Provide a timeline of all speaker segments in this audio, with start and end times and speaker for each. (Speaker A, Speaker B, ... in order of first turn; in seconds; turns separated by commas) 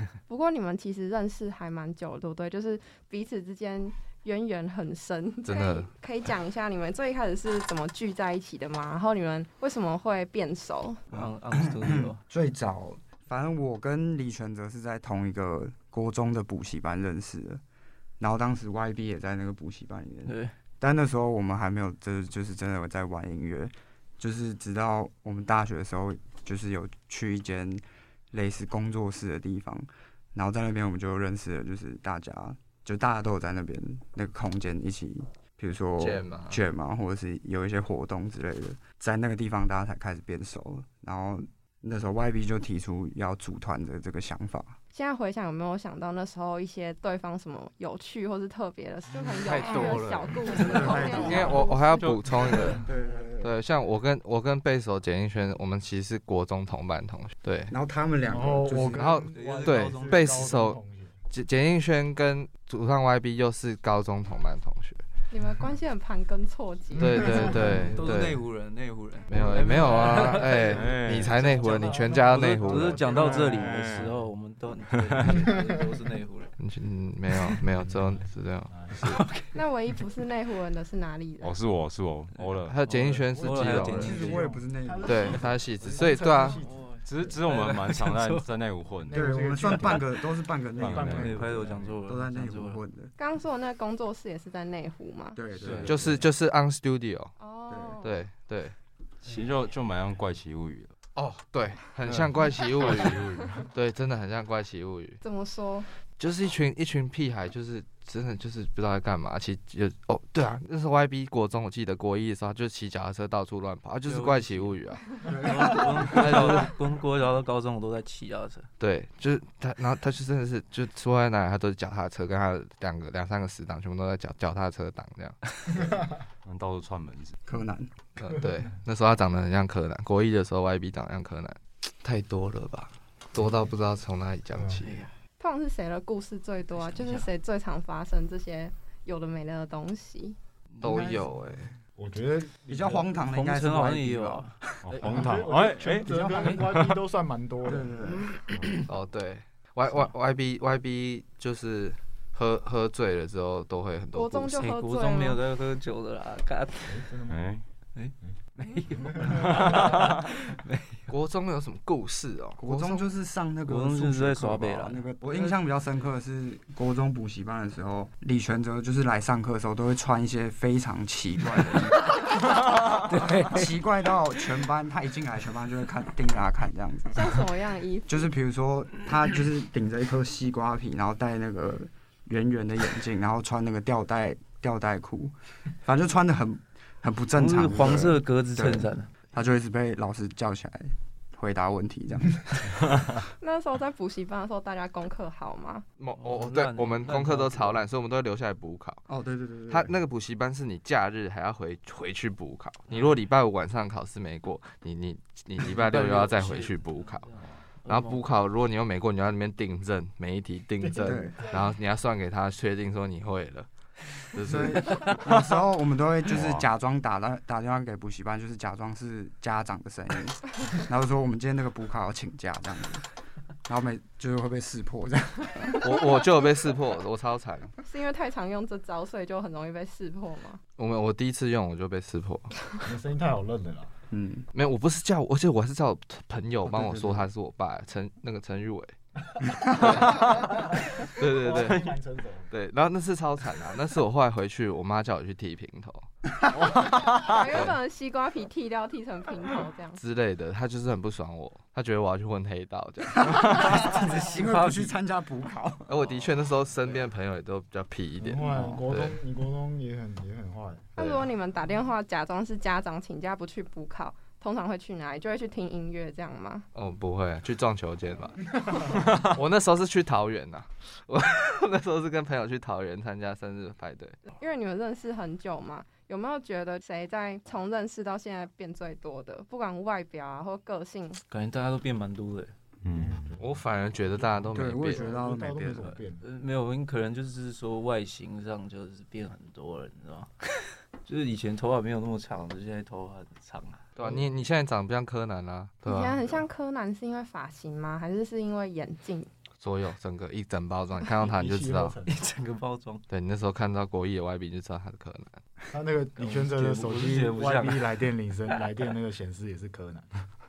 Speaker A: 0.3-11.0, Speaker B: 5.5-5.9, Speaker C: 11.1-12.2, Speaker D: 11.1-17.6, Speaker D: 18.2-44.8, Speaker C: 20.2-20.5, Speaker B: 36.0-36.6, Speaker A: 44.9-52.1, Speaker E: 49.3-52.8, Speaker B: 49.6-50.0, Speaker F: 50.5-51.6, Speaker D: 50.6-51.6, Speaker B: 51.0-52.8, Speaker F: 52.5-53.2, Speaker D: 52.8-53.5, Speaker B: 53.4-57.7, Speaker D: 57.7-59.1, Speaker F: 58.3-61.1, Speaker B: 58.9-60.8, Speaker C: 59.3-60.4, Speaker B: 61.3-65.0, Speaker A: 65.3-67.3, Speaker F: 67.0-68.3, Speaker B: 67.0-68.4, Speaker C: 67.4-70.8, Speaker B: 69.3-73.1, Speaker F: 69.3-74.1, Speaker E: 70.6-71.6, Speaker C: 71.8-76.5, Speaker E: 73.2-74.2, Speaker E: 74.9-75.4, Speaker F: 75.2-75.8, Speaker B: 76.6-79.2, Speaker F: 77.8-79.2, Speaker C: 79.0-79.6, Speaker A: 79.5-81.6, Speaker E: 81.4-82.8, Speaker B: 82.6-84.2, Speaker C: 82.8-84.6, Speaker F: 83.6-87.6, Speaker D: 83.8-85.5, Speaker B: 85.0-86.6, Speaker C: 86.4-88.5, Speaker E: 87.0-89.3, Speaker F: 89.0-91.9, Speaker D: 89.1-91.4, Speaker E: 90.8-91.8, Speaker C: 91.0-92.8, Speaker D: 92.1-93.1, Speaker A: 93.2-95.4, Speaker D: 95.3-96.2, Speaker E: 95.5-96.2, Speaker B: 95.8-97.3, Speaker A: 97.4-98.1, Speaker D: 97.7-98.0, Speaker B: 98.0-98.7, Speaker E: 99.2-100.9, Speaker B: 101.1-105.2, Speaker E: 102.1-103.7, Speaker A: 105.2-105.9, Speaker B: 106.2-115.3, Speaker C: 114.0-118.7, Speaker F: 115.2-116.5, Speaker B: 116.0-116.7, Speaker B: 118.8-125.4, Speaker F: 125.7-126.2, Speaker E: 126.4-127.3, Speaker D: 127.5-127.9, Speaker B: 128.2-134.9, Speaker F: 134.5-134.8, Speaker C: 134.8-135.1, Speaker A: 135.4-140.4, Speaker C: 136.7-137.3, Speaker B: 140.8-141.7, Speaker D: 140.8-141.3, Speaker F: 141.9-143.2, Speaker D: 142.7-144.9, Speaker C: 143.2-145.4, Speaker E: 144.8-147.0, Speaker F: 145.0-147.9, Speaker D: 146.1-146.6, Speaker D: 147.6-148.2, Speaker C: 148.5-148.9, Speaker B: 148.9-154.6, Speaker A: 154.1-155.4, Speaker C: 154.5-157.1, Speaker F: 156.9-157.5, Speaker E: 157.3-157.6, Speaker C: 157.9-161.1, Speaker F: 159.0-159.4, Speaker E: 159.4-160.2, Speaker B: 161.1-163.1, Speaker D: 162.6-172.2, Speaker C: 163.7-165.5, Speaker C: 172.9-173.7, Speaker D: 173.0-177.4, Speaker A: 177.1-178.3, Speaker D: 178.1-192.9, Speaker C: 187.3-189.1, Speaker A: 193.4-195.8, Speaker B: 196.0-199.0, Speaker C: 196.2-197.8, Speaker D: 199.1-200.0, Speaker B: 199.7-207.3, Speaker C: 205.7-208.2, Speaker B: 207.8-213.7, Speaker F: 210.8-211.8, Speaker D: 211.0-211.4, Speaker B: 214.2-215.1, Speaker D: 214.4-223.1, Speaker E: 216.3-216.7, Speaker D: 223.6-225.9, Speaker B: 225.8-227.7, Speaker A: 227.8-230.6, Speaker B: 230.8-232.5, Speaker F: 232.8-234.0, Speaker D: 234.1-234.5, Speaker B: 234.5-238.9, Speaker D: 236.7-237.2, Speaker F: 239.4-242.5, Speaker B: 239.7-241.9, Speaker B: 242.5-246.1, Speaker A: 247.2-250.0, Speaker B: 247.5-247.8, Speaker B: 250.0-253.8, Speaker D: 253.2-256.2, Speaker C: 253.8-254.9, Speaker B: 255.9-259.2, Speaker F: 258.2-260.9, Speaker D: 258.4-258.8, Speaker B: 261.0-261.3, Speaker A: 261.0-266.7, Speaker B: 266.7-274.2, Speaker A: 274.3-281.2, Speaker C: 281.3-282.5, Speaker E: 282.8-283.4, Speaker F: 282.9-286.3, Speaker B: 283.4-285.1, Speaker D: 284.5-286.0, Speaker C: 286.2-293.9, Speaker B: 294.0-296.2, Speaker F: 294.0-294.3, Speaker A: 295.8-299.3, Speaker B: 299.6-302.0, Speaker F: 301.1-302.3, Speaker C: 302.1-303.0, Speaker B: 303.1-305.4, Speaker F: 305.7-310.2, Speaker C: 306.2-307.9